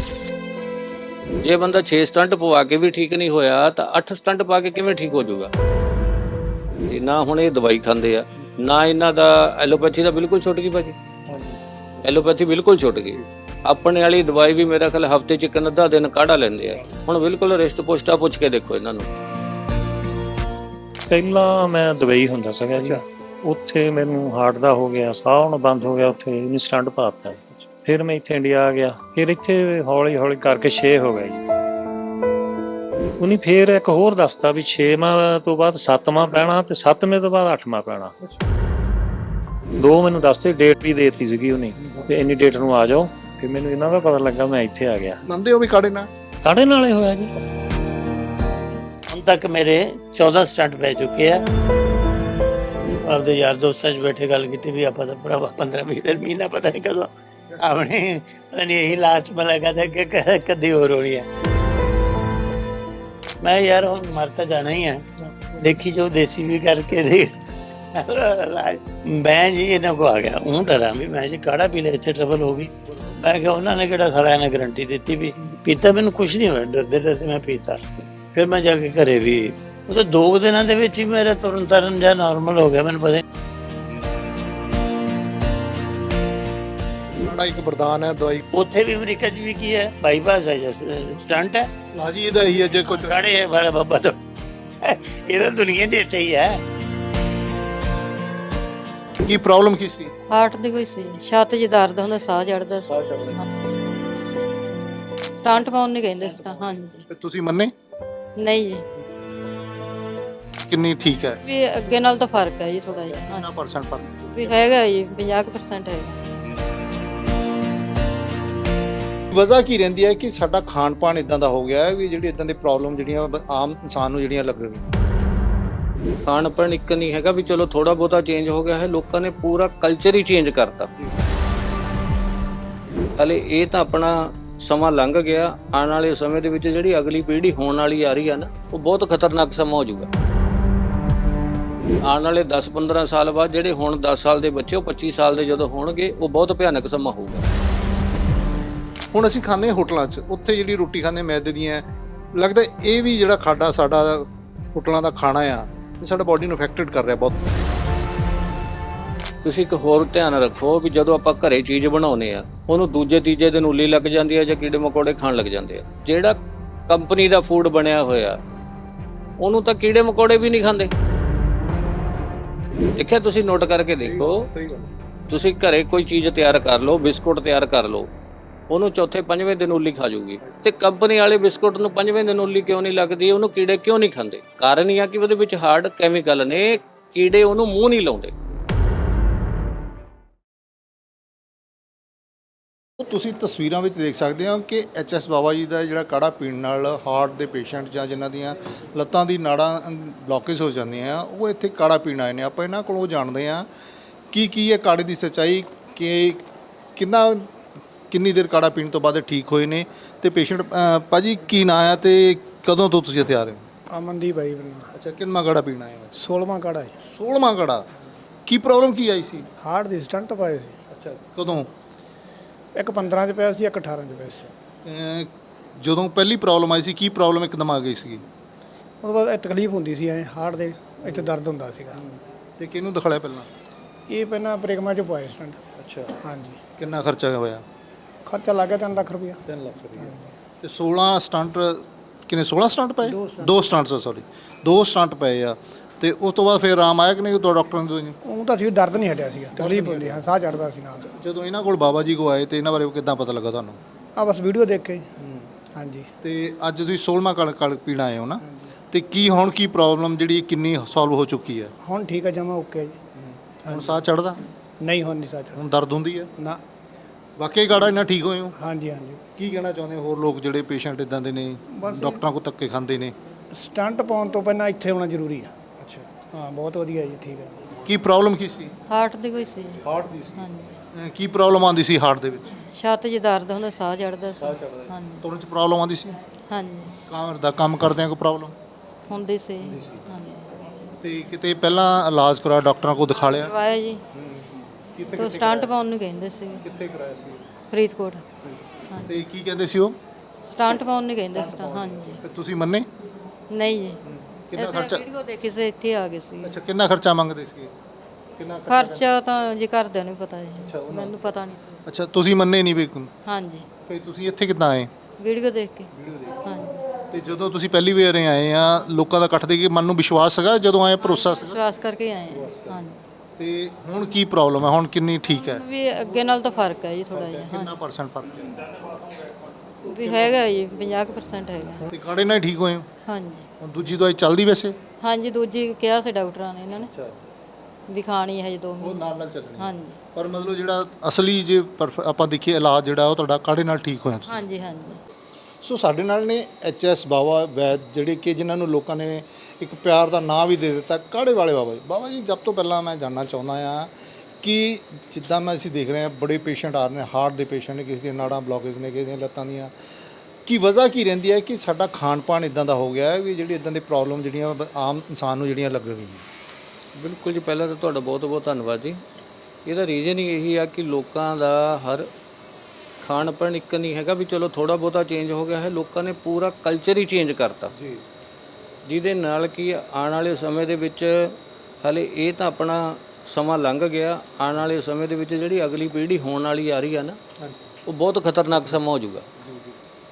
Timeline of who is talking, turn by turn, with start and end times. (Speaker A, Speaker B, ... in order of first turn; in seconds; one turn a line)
Speaker A: 1.4-5.5
Speaker A: 6.9-10.9
Speaker A: 12.0-19.1
Speaker B: 21.1-31.4
Speaker B: 33.2-38.1
Speaker B: 39.8-45.2
Speaker C: 45.3-46.1
Speaker B: 46.4-47.3
Speaker D: 49.1-51.5
Speaker D: 53.0-61.3
Speaker D: 63.4-67.4
Speaker D: 67.9-83.2
Speaker C: 87.1-88.5
Speaker D: 88.5-91.7
Speaker C: 91.9-93.2
Speaker D: 93.0-94.2
Speaker D: 94.8-96.6
Speaker C: 99.2-100.1
Speaker E: 100.3-103.5
Speaker C: 103.0-103.3
Speaker E: 105.4-107.1
Speaker C: 107.1-107.7
Speaker E: 108.4-108.8
Speaker C: 110.7-111.4
Speaker E: 111.4-113.5
Speaker C: 113.2-114.3
Speaker E: 114.3-116.2
Speaker C: 119.3-124.8
Speaker A: 126.2-130.9
Speaker A: 133.2-140.1
Speaker A: 142.0-147.4
Speaker C: 149.1-157.4
Speaker A: 159.4-166.4
Speaker A: 166.9-168.4
Speaker A: 169.4-170.9
Speaker A: 173.0-174.5
Speaker C: 174.1-174.9
Speaker A: 175.3-178.1
Speaker A: 178.7-188.3
Speaker C: 193.0-203.7
Speaker C: 204.3-206.4
Speaker C: 207.0-207.5
Speaker C: 208.1-213.7
Speaker F: 213.9-214.9
Speaker C: 214.9-216.2
Speaker F: 216.1-216.9
Speaker C: 217.0-217.9
Speaker C: 218.5-219.5
Speaker F: 219.6-220.8
Speaker C: 220.9-221.7
Speaker F: 222.8-224.5
Speaker C: 224.8-228.2
Speaker F: 229.0-232.0
Speaker C: 231.9-233.5
Speaker F: 234.1-235.6
Speaker C: 235.8-236.1
Speaker F: 236.2-236.6
Speaker C: 236.8-237.7
Speaker F: 238.3-239.4
Speaker C: 239.5-248.2
Speaker F: 240.0-240.2
Speaker F: 243.0-243.6
Speaker F: 248.2-251.1
Speaker C: 249.6-250.3
Speaker C: 251.0-253.8
Speaker F: 254.2-255.1
Speaker C: 255.2-255.5
Speaker F: 255.7-256.1
Speaker C: 256.2-261.7
Speaker F: 261.8-263.0
Speaker C: 263.2-264.4
Speaker F: 263.7-264.0
Speaker F: 264.8-265.6
Speaker C: 265.6-266.3
Speaker C: 267.4-268.5
Speaker F: 268.6-269.2
Speaker C: 269.4-273.1
Speaker F: 271.7-272.2
Speaker F: 273.5-275.6
Speaker F: 276.2-277.7
Speaker C: 277.8-278.7
Speaker E: 278.9-279.8
Speaker C: 279.8-282.5
Speaker E: 280.4-280.8
Speaker E: 282.6-285.2
Speaker C: 284.5-286.2
Speaker E: 286.5-286.9
Speaker C: 287.1-288.6
Speaker E: 289.1-290.5
Speaker C: 289.6-290.0
Speaker C: 291.0-293.5
Speaker E: 293.4-294.0
Speaker C: 294.1-295.8
Speaker E: 295.1-296.7
Speaker C: 296.6-297.5
Speaker E: 297.7-298.2
Speaker C: 298.4-300.0
Speaker E: 300.5-302.2
Speaker C: 301.3-302.9
Speaker E: 303.5-304.0
Speaker C: 304.1-305.1
Speaker E: 304.5-306.6
Speaker C: 306.4-307.7
Speaker C: 308.4-309.1
Speaker E: 308.7-311.8
Speaker C: 310.6-311.3
Speaker C: 311.9-313.1
Speaker E: 313.2-313.7
Speaker C: 313.8-314.9
Speaker E: 315.2-315.9
Speaker C: 315.9-316.4
Speaker E: 316.4-316.8
Speaker C: 317.1-321.6
Speaker E: 321.0-323.0
Speaker C: 322.3-322.8
Speaker C: 323.4-325.6
Speaker E: 325.4-327.8
Speaker C: 327.1-328.9
Speaker E: 329.8-331.9
Speaker C: 329.9-330.3
Speaker C: 331.8-332.9
Speaker E: 333.1-333.5
Speaker C: 333.6-334.8
Speaker E: 335.0-336.9
Speaker C: 336.8-337.2
Speaker E: 337.9-339.0
Speaker C: 338.8-344.4
Speaker E: 339.6-340.0
Speaker E: 344.3-345.0
Speaker C: 345.6-359.7
Speaker C: 360.5-366.2
Speaker A: 367.0-369.0
Speaker A: 369.7-372.1
Speaker A: 373.0-377.7
Speaker C: 377.8-378.0
Speaker A: 378.9-387.2
Speaker A: 387.9-389.2
Speaker C: 389.4-389.8